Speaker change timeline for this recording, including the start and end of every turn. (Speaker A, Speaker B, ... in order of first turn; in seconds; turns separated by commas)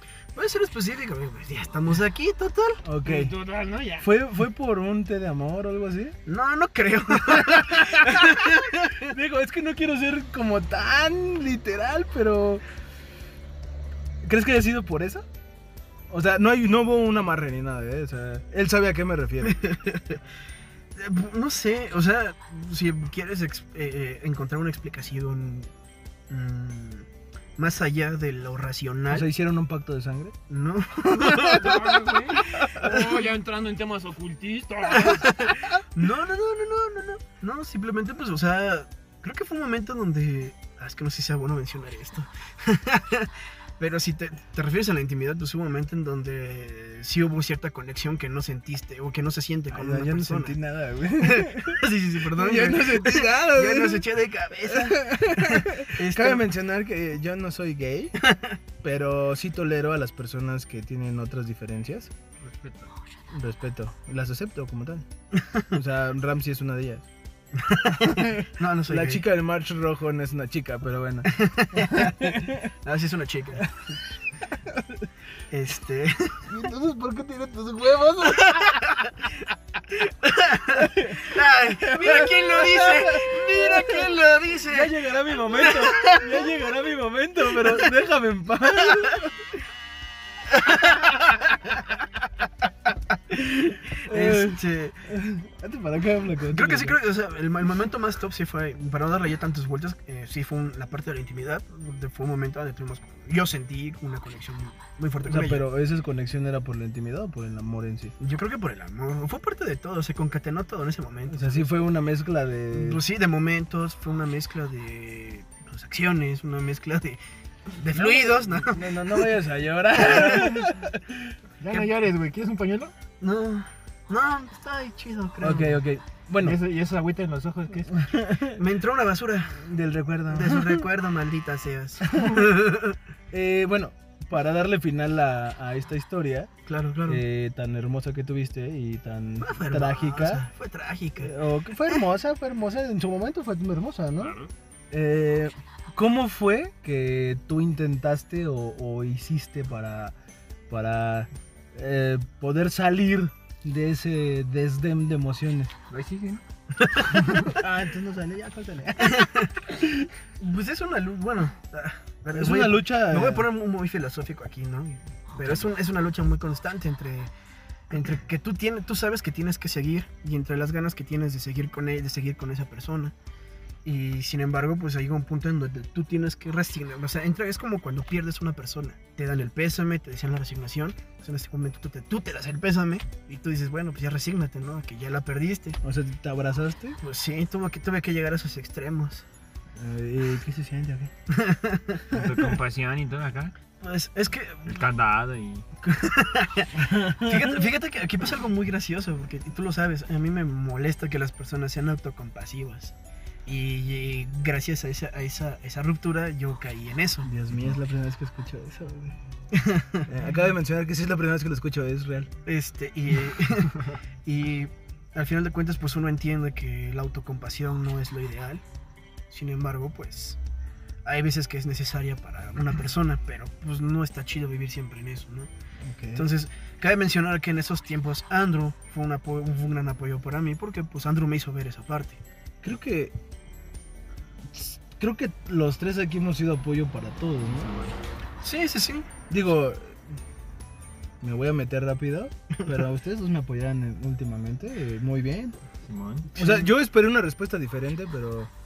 Speaker A: 0.3-2.8, Speaker B: 2.8-3.4, Speaker C: 3.0-4.1, Speaker B: 4.0-6.2, Speaker A: 6.2-9.1, Speaker B: 7.3-12.6, Speaker B: 14.2-15.2, Speaker B: 16.1-19.7, Speaker A: 19.4-20.2, Speaker A: 20.9-25.7, Speaker A: 26.3-29.3, Speaker B: 29.1-30.4, Speaker A: 30.5-33.0, Speaker C: 31.4-35.6, Speaker A: 35.0-50.5, Speaker B: 49.7-54.0, Speaker A: 51.2-56.5, Speaker B: 54.7-58.2, Speaker A: 58.2-58.6, Speaker B: 58.8-62.1, Speaker C: 62.4-62.9, Speaker B: 63.3-65.0, Speaker A: 65.4-65.6, Speaker B: 65.7-67.1, Speaker A: 67.5-69.2, Speaker B: 68.0-72.7, Speaker A: 71.2-73.7, Speaker A: 75.5-76.4, Speaker B: 76.5-78.9, Speaker A: 78.5-79.1, Speaker A: 80.0-86.5, Speaker B: 80.7-84.0, Speaker B: 84.7-89.4, Speaker A: 87.6-87.8, Speaker B: 90.9-91.8, Speaker B: 94.0-97.0, Speaker A: 94.0-95.0, Speaker A: 96.5-105.7, Speaker B: 105.2-108.1, Speaker A: 108.2-111.7, Speaker B: 111.3-113.0, Speaker A: 112.7-117.2, Speaker A: 117.7-119.3, Speaker B: 117.9-121.3, Speaker A: 119.9-120.7, Speaker C: 121.6-122.9, Speaker A: 123.2-125.8, Speaker B: 125.4-126.6, Speaker C: 126.4-128.1, Speaker B: 127.9-128.6, Speaker A: 128.5-129.6, Speaker B: 129.5-130.8, Speaker A: 130.3-133.0, Speaker B: 132.1-132.5, Speaker B: 133.3-136.5, Speaker A: 136.7-137.2, Speaker B: 137.1-140.4, Speaker A: 139.4-141.3, Speaker B: 141.2-144.3, Speaker C: 144.2-144.5, Speaker B: 144.9-150.1, Speaker B: 150.7-155.7, Speaker C: 155.9-156.4, Speaker A: 156.8-157.1, Speaker C: 157.0-157.5, Speaker B: 157.4-160.1, Speaker A: 159.0-159.5, Speaker A: 160.4-167.3, Speaker B: 162.3-163.5, Speaker C: 165.3-165.7, Speaker A: 167.9-173.1, Speaker A: 173.8-185.8, Speaker B: 185.8-187.0, Speaker A: 187.0-189.2, Speaker B: 189.8-191.1, Speaker A: 191.3-192.0, Speaker C: 192.1-193.5, Speaker A: 193.8-194.8, Speaker C: 194.6-195.6, Speaker A: 195.8-202.9, Speaker B: 196.8-197.6, Speaker A: 203.4-207.3, Speaker B: 207.2-209.2, Speaker A: 209.5-210.1, Speaker B: 210.1-212.3, Speaker A: 212.4-218.6, Speaker A: 219.3-220.4, Speaker A: 221.0-225.5, Speaker B: 225.8-226.3, Speaker A: 226.1-232.2, Speaker B: 232.6-233.1, Speaker B: 234.5-237.9, Speaker C: 237.5-237.9, Speaker A: 238.4-239.1, Speaker B: 239.3-240.0, Speaker B: 241.2-245.6, Speaker C: 245.8-246.3, Speaker B: 246.3-248.5, Speaker A: 246.3-246.7